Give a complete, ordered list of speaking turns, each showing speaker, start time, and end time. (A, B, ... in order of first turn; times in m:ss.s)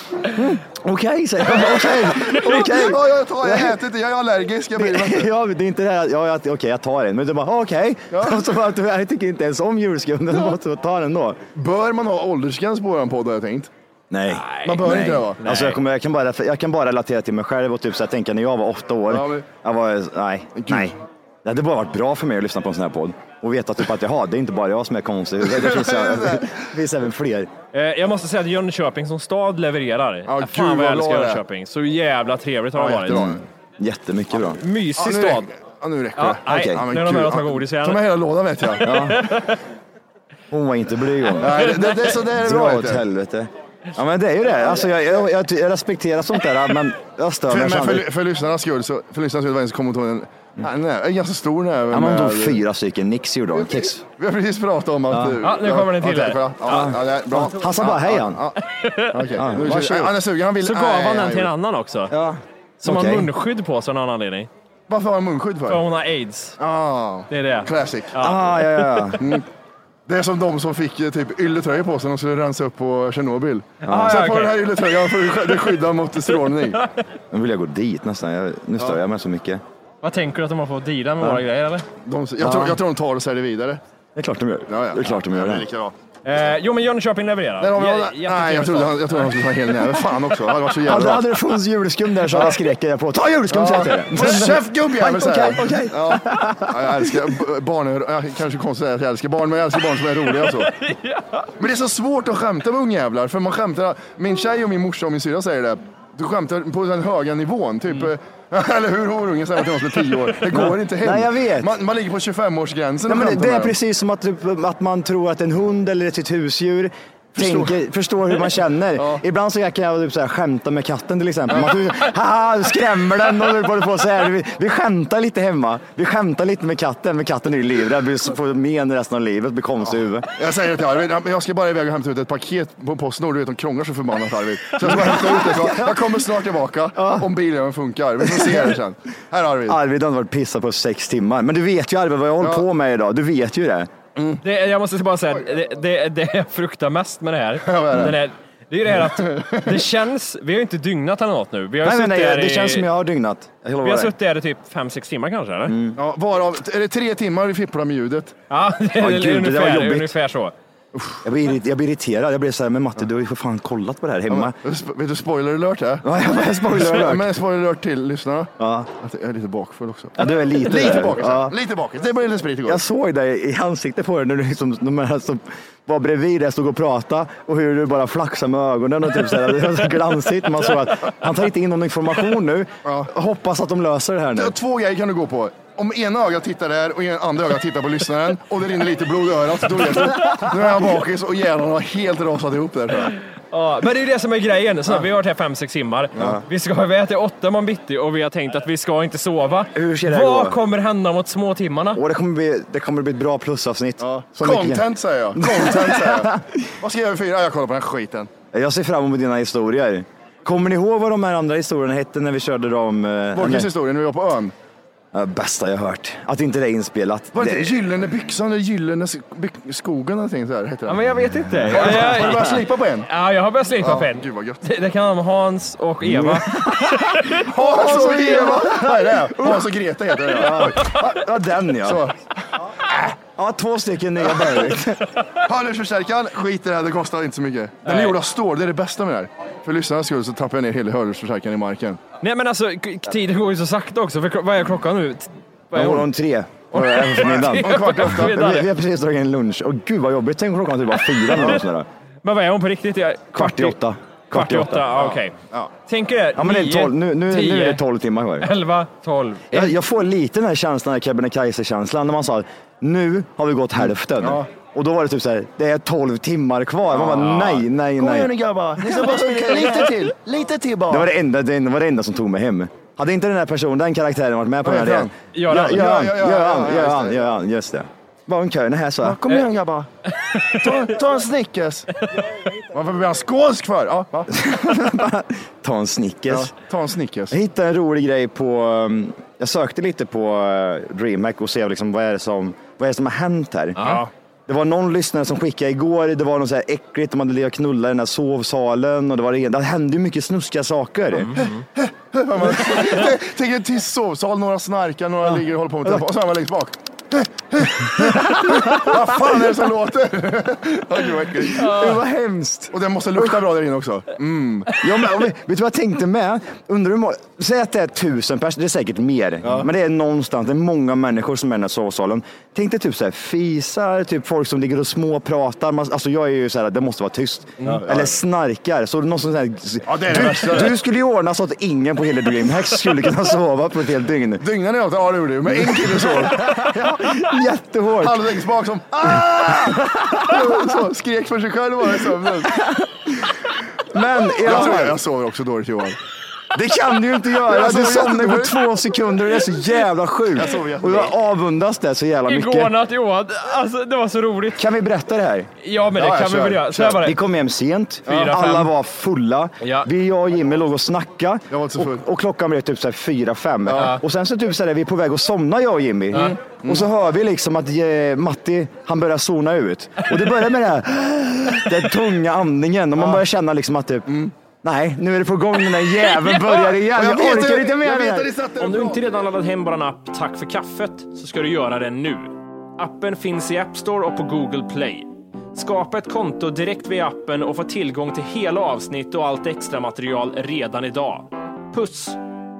0:00.3-0:03.8 A
0:02.2-0:02.7 B
0:02.2-0:05.3 C
0:04.8-0:11.4 A
0:08.1-0:08.4 C
0:11.5-0:13.7 C
0:14.1-0:27.5 A
0:14.3-0:15.8 B
0:14.6-0:15.4 C
0:19.1-0:19.4 C
0:20.6-0:20.9 C
0:25.5-0:26.6 C
0:27.7-0:33.3 B
0:30.3-0:31.4 C
0:32.8-0:33.4 C
0:33.1-0:34.6 A
0:34.6-0:35.5 B
0:35.0-0:39.1 C
0:36.2-0:38.0 B
0:36.4-0:36.8 A
0:38.8-0:39.3 A
0:38.9-0:39.6 B
0:40.5-0:48.1 A
0:41.4-0:43.0 C
0:47.5-0:52.6 C
0:51.9-0:54.0 A
0:53.5-0:58.6 C
0:55.1-0:55.4 A
0:55.4-0:56.8 B
0:56.6-0:58.4 A
0:58.6-0:59.3 B
0:59.1-1:01.5 C
0:59.4-1:00.1 A
1:00.6-1:02.1 B
1:02.1-1:03.3 A
1:02.8-1:04.5 B
1:04.9-1:05.8 C
1:05.7-1:06.6 B
1:06.6-1:08.1 C
1:07.3-1:09.2 B
1:08.2-1:09.2 A
1:09.2-1:09.4 C
1:10.1-1:16.8 C
1:13.8-1:14.6 B
1:13.9-1:14.2 A
1:17.3-1:19.6 A
1:20.0-1:21.8 B
1:22.0-1:23.8 C
1:22.4-1:22.8 A
1:24.2-1:25.7 A
1:24.7-1:25.9 C
1:26.2-1:29.3 B
1:27.6-1:31.2 C
1:30.8-1:37.4 A
1:32.3-1:32.6 C
1:33.5-1:40.7 C
1:40.4-1:41.5 B
1:41.6-1:53.7 C
1:50.5-1:51.7 A
1:53.1-2:10.3 A
1:57.4-1:57.8 C
1:59.0-1:59.2 C
2:10.4-2:19.8 C
2:14.8-2:16.0 A
2:17.0-2:17.3 A
2:18.2-2:18.8 A
2:19.7-2:23.9 A
2:22.4-2:22.6 C
2:24.2-2:24.4 C
2:24.4-2:32.9 B
2:27.6-2:28.2 C
2:29.0-2:29.8 C
2:31.8-2:34.1 A
2:33.8-2:35.8 B
2:35.7-2:36.0 A
2:36.0-2:38.3 C
2:38.5-2:40.5 B
2:39.0-2:40.2 A
2:41.2-2:44.5 A
2:44.3-2:46.1 C
2:46.0-2:47.4 A
2:46.6-2:52.8 C
2:48.6-2:48.9 A
2:50.2-2:51.5 A
2:52.6-3:04.5 A
3:02.8-3:03.1 C
3:04.4-3:13.1 C
3:13.5-3:22.0 B
3:19.7-3:20.6 A
3:21.9-3:24.8 A
3:24.0-3:28.3 C
3:25.4-3:26.6 A
3:28.5-3:33.7 A
3:33.3-3:34.5 C
3:35.1-3:37.8 A
3:37.3-3:41.0 C
3:40.9-3:47.4 B
3:41.4-3:42.3 A
3:41.7-3:43.1 C
3:43.8-3:44.6 C
3:46.0-3:49.7 A
3:47.4-3:51.0 C
3:50.3-3:52.0 A
3:51.8-3:52.2 C
3:53.3-3:55.0 A
3:54.3-3:54.8 C
3:55.4-4:02.0 C
3:57.8-3:58.2 B
4:02.2-4:06.1 B
4:05.7-4:11.9 A
4:06.7-4:08.7 B
4:07.4-4:08.3 C
4:11.1-4:11.6 B
4:12.2-4:13.8 B
4:13.3-4:14.9 A
4:14.3-4:15.3 B
4:15.0-4:15.7 C
4:15.8-4:17.8 B
4:16.4-4:18.5 A
4:18.4-4:19.7 B
4:19.5-4:29.9 A
4:24.2-4:24.5 C
4:26.9-4:31.1 C
4:30.9-4:39.2 A
4:34.6-4:37.3 C
4:35.3-4:35.8 B
4:39.0-4:39.9 C
4:40.2-4:40.7 B
4:40.6-4:41.9 C
4:42.7-4:44.3 C
4:44.3-4:46.5 A
4:46.3-4:47.4 C
4:47.3-5:01.4 A
4:53.8-4:54.1 B
5:01.1-5:01.6 B
5:01.8-5:11.9 C
5:08.0-5:09.0 A
5:11.5-5:13.4 A
5:11.6-5:12.0 B
5:12.7-5:14.7 C
5:14.8-5:34.4 A
5:27.6-5:28.1 C
5:29.9-5:30.8 C
5:34.4-5:36.6 C
5:35.5-5:38.2 A
5:38.0-5:42.6 C
5:39.1-5:40.6 A
5:42.6-5:42.8 A
5:43.9-5:45.0 A
5:44.4-5:46.0 C
5:46.5-5:52.7 A
5:47.4-5:48.6 C
5:50.3-5:51.1 C
5:52.3-5:54.6 B
5:54.5-5:55.5 A
5:55.6-5:57.2 B
5:55.9-5:56.9 C
5:56.8-6:18.3 A
5:58.1-5:58.7 B
5:59.6-5:59.9 B
6:01.5-6:02.0 C
6:03.7-6:03.9 C
6:03.8-6:04.0 B
6:06.1-6:06.9 C
6:14.1-6:14.3 C
6:16.6-6:19.0 C
6:18.6-6:32.2 B